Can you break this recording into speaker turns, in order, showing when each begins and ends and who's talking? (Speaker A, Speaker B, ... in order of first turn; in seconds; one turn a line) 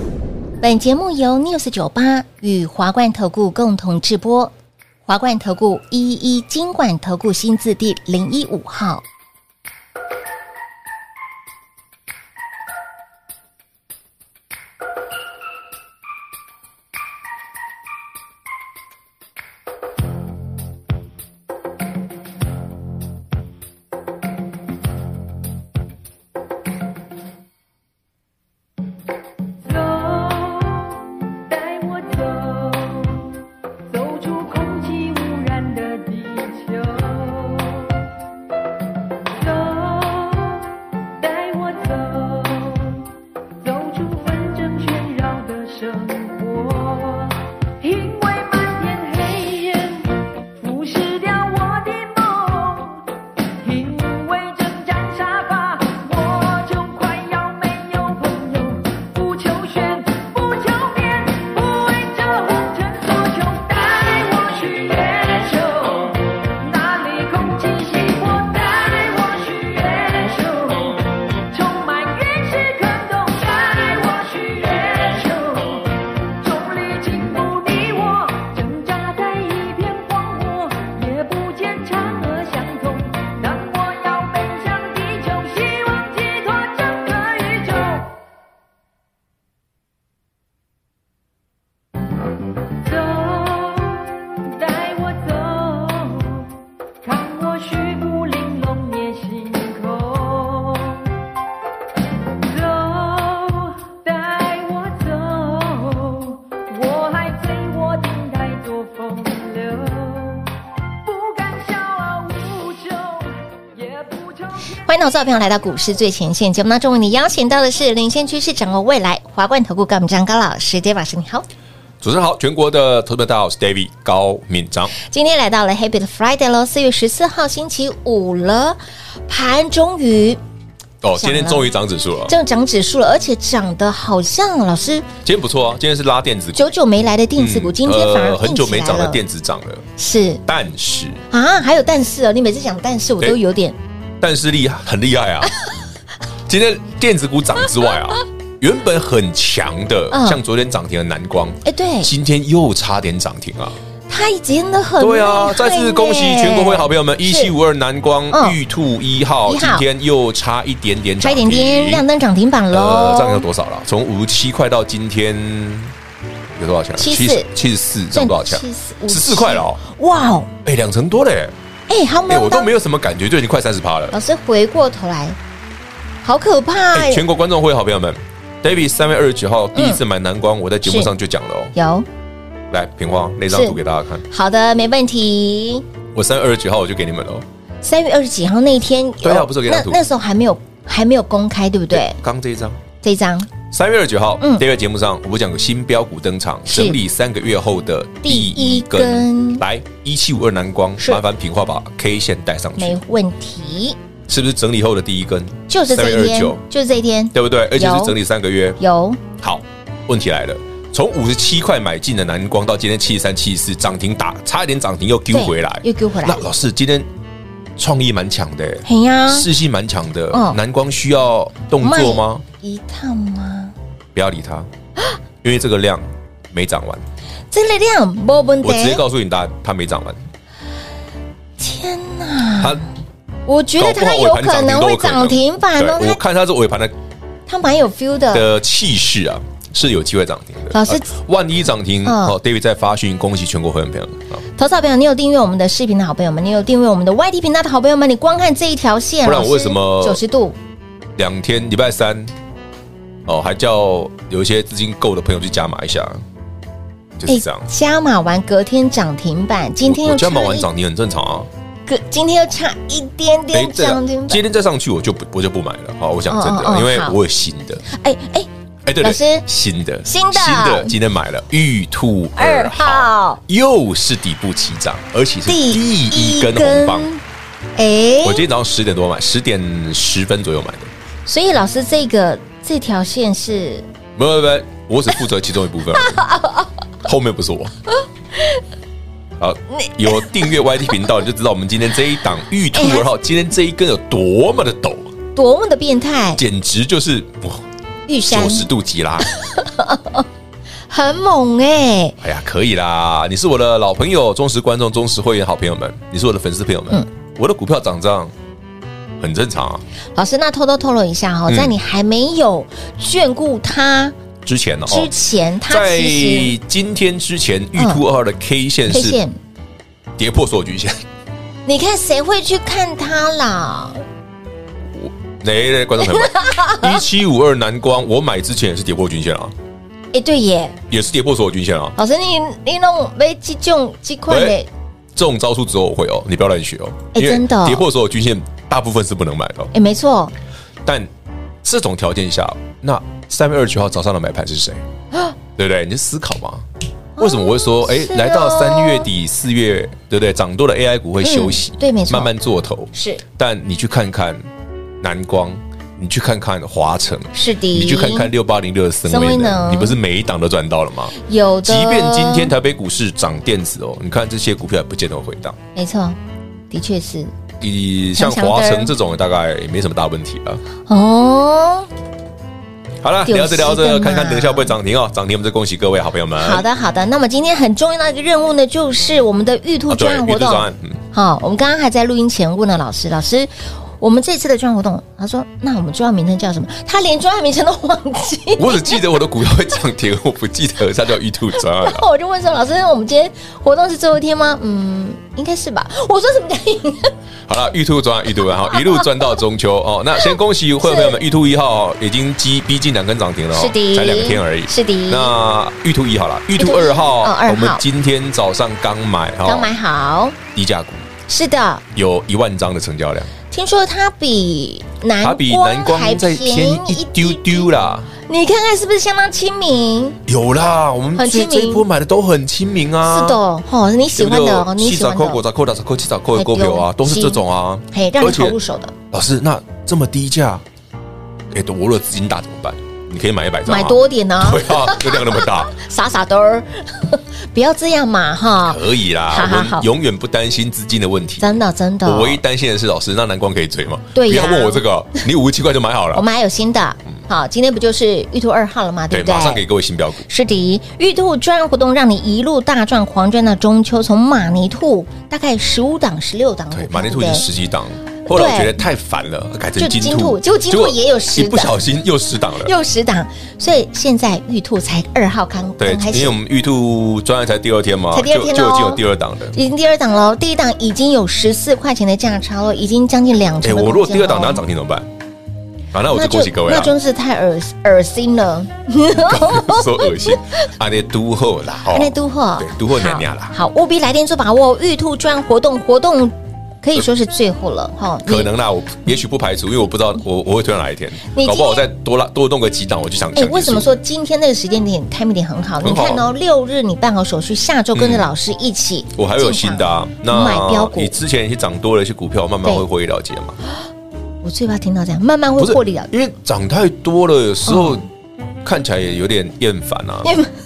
Speaker A: 0.6-4.5
Speaker A: 5.0-9.0
Speaker B: 29.6-33.3
Speaker B: 33.9-38.0
Speaker B: 39.4-40.6
Speaker B: 41.2-43.0
Speaker B: 43.6-88.2
Speaker B: 92.8-96.5
Speaker B: 97.0-101.1
Speaker B: 102.4-110.5
Speaker B: 111.0-114.7
Speaker A: 114.8-121.4
Speaker C: 122.0-124.9
Speaker A: 125.0-130.4
Speaker C: 131.0-132.3
Speaker A: 131.2-131.7
Speaker A: 132.3-135.1
Speaker C: 135.2-136.7
Speaker A: 136.5-139.2
Speaker C: 137.4-139.8
Speaker A: 140.0-140.4
Speaker C: 140.4-141.2
Speaker A: 141.3-143.8
Speaker C: 144.2-145.5
Speaker C: 146.5-153.8
Speaker A: 150.1-150.4
Speaker A: 151.6-152.1
Speaker A: 154.1-157.5
Speaker C: 155.0-162.0
Speaker A: 158.3-158.6
Speaker A: 159.4-159.8
Speaker A: 161.2-163.4
Speaker C: 162.7-165.9
Speaker C: 166.5-169.8
Speaker A: 167.0-167.5
Speaker A: 168.1-170.5
Speaker C: 170.6-171.5
Speaker A: 171.9-172.7
Speaker C: 172.3-174.2
Speaker A: 174.1-175.4
Speaker A: 176.2-177.2
Speaker C: 176.9-181.7
Speaker A: 179.7-180.0
Speaker A: 180.8-181.1
Speaker A: 181.7-182.1
Speaker C: 182.7-184.2
Speaker A: 183.5-183.8
Speaker A: 184.3-185.8
Speaker C: 186.1-187.4
Speaker A: 187.8-192.2
Speaker C: 189.2-190.0
Speaker C: 191.9-192.8
Speaker A: 193.0-193.5
Speaker C: 193.7-203.0
Speaker A: 194.4-194.6
Speaker A: 196.7-197.0
Speaker A: 198.2-199.6
Speaker A: 202.8-204.0
Speaker C: 204.3-206.6
Speaker A: 205.7-208.2
Speaker C: 207.3-208.8
Speaker A: 208.8-209.2
Speaker C: 209.4-217.1
Speaker A: 215.3-216.4
Speaker C: 217.8-222.4
Speaker A: 218.8-219.5
Speaker A: 220.3-220.6
Speaker A: 221.8-223.7
Speaker C: 224.1-224.7
Speaker C: 225.4-227.0
Speaker A: 227.5-229.0
Speaker C: 228.6-230.2
Speaker A: 231.6-232.8
Speaker C: 232.6-232.8
Speaker A: 233.5-236.2
Speaker C: 233.8-236.9
Speaker A: 237.5-238.5
Speaker C: 238.3-244.4
Speaker A: 240.7-241.1
Speaker A: 242.0-242.3
Speaker A: 244.6-250.6
Speaker C: 249.2-250.2
Speaker C: 251.2-252.3
Speaker C: 253.2-256.2
Speaker C: 257.2-257.7
Speaker A: 257.3-260.7
Speaker C: 259.8-261.5
Speaker A: 261.9-264.4
Speaker C: 263.5-267.8
Speaker A: 266.3-267.2
Speaker A: 267.8-268.5
Speaker C: 268.9-277.1
Speaker A: 269.0-269.4
Speaker A: 270.1-270.9
Speaker A: 272.4-273.4
Speaker A: 275.5-277.2
Speaker A: 277.8-278.4
Speaker C: 278.2-280.9
Speaker A: 281.2-283.9
Speaker C: 284.1-286.2
Speaker A: 286.0-286.7
Speaker C: 287.0-287.7
Speaker C: 289.4-295.1
Speaker A: 289.8-290.4
Speaker A: 292.7-293.1
Speaker A: 295.3-296.4
Speaker C: 296.4-297.6
Speaker A: 298.1-298.7
Speaker C: 298.3-299.3
Speaker A: 299.2-300.3
Speaker A: 300.9-302.2
Speaker C: 302.2-308.3
Speaker C: 309.2-309.8
Speaker A: 310.1-314.1
Speaker C: 311.5-311.7
Speaker C: 314.4-315.1
Speaker A: 314.9-316.5
Speaker C: 315.7-319.2
Speaker A: 317.8-318.0
Speaker A: 318.9-319.4
Speaker C: 320.2-321.0
Speaker A: 321.6-324.0
Speaker C: 324.9-329.5
Speaker A: 326.0-327.0
Speaker A: 330.1-330.8
Speaker C: 330.9-331.9
Speaker A: 332.0-334.7
Speaker C: 334.3-334.6
Speaker C: 335.1-339.7
Speaker A: 337.1-337.8
Speaker A: 339.7-340.3
Speaker C: 341.6-344.8
Speaker C: 345.6-346.6
Speaker A: 347.2-349.1
Speaker C: 347.2-354.4
Speaker A: 351.2-352.3
Speaker A: 352.9-353.2
Speaker C: 355.0-365.6
Speaker A: 357.3-358.3
Speaker A: 359.1-360.0
Speaker A: 361.2-362.5
Speaker A: 365.7-366.2
Speaker A: 366.7-367.3
Speaker C: 367.6-370.6
Speaker A: 368.1-368.9
Speaker A: 370.9-371.9
Speaker C: 373.0-376.6
Speaker A: 373.2-374.7
Speaker A: 376.4-389.0
Speaker C: 379.9-381.0
Speaker C: 388.6-392.0
Speaker A: 391.6-397.1
Speaker C: 397.5-409.7
Speaker A: 398.7-399.0
Speaker A: 400.8-401.2
Speaker A: 403.5-405.3
Speaker A: 406.6-407.8
Speaker A: 409.4-410.4
Speaker C: 410.5-411.1
Speaker A: 411.3-411.8
Speaker C: 411.9-413.3
Speaker A: 413.5-417.7
Speaker C: 415.2-418.1
Speaker A: 418.3-420.2
Speaker C: 420.3-423.4
Speaker A: 421.1-421.9
Speaker A: 423.0-425.4
Speaker C: 424.1-428.6
Speaker A: 426.3-428.9
Speaker C: 429.1-430.6
Speaker C: 431.5-435.8
Speaker A: 433.6-439.9
Speaker C: 438.6-446.2
Speaker A: 441.4-442.4
Speaker A: 444.1-444.8
Speaker A: 446.1-449.6
Speaker C: 449.1-450.3
Speaker A: 450.3-457.4
Speaker C: 456.7-462.7
Speaker A: 458.3-458.8
Speaker A: 459.8-461.8
Speaker A: 462.6-466.4
Speaker C: 465.8-469.6
Speaker A: 468.1-469.0
Speaker A: 469.5-474.6
Speaker C: 473.6-475.1
Speaker C: 475.9-476.9
Speaker A: 476.1-480.6
Speaker C: 479.1-483.5
Speaker A: 481.9-488.5
Speaker C: 488.2-493.9
Speaker A: 491.3-491.9
Speaker A: 493.3-501.1
Speaker C: 495.8-496.3
Speaker C: 497.9-498.3
Speaker C: 499.1-503.6
Speaker A: 504.4-506.1
Speaker C: 505.6-508.0
Speaker A: 507.6-508.0
Speaker C: 508.6-510.3
Speaker A: 510.2-510.5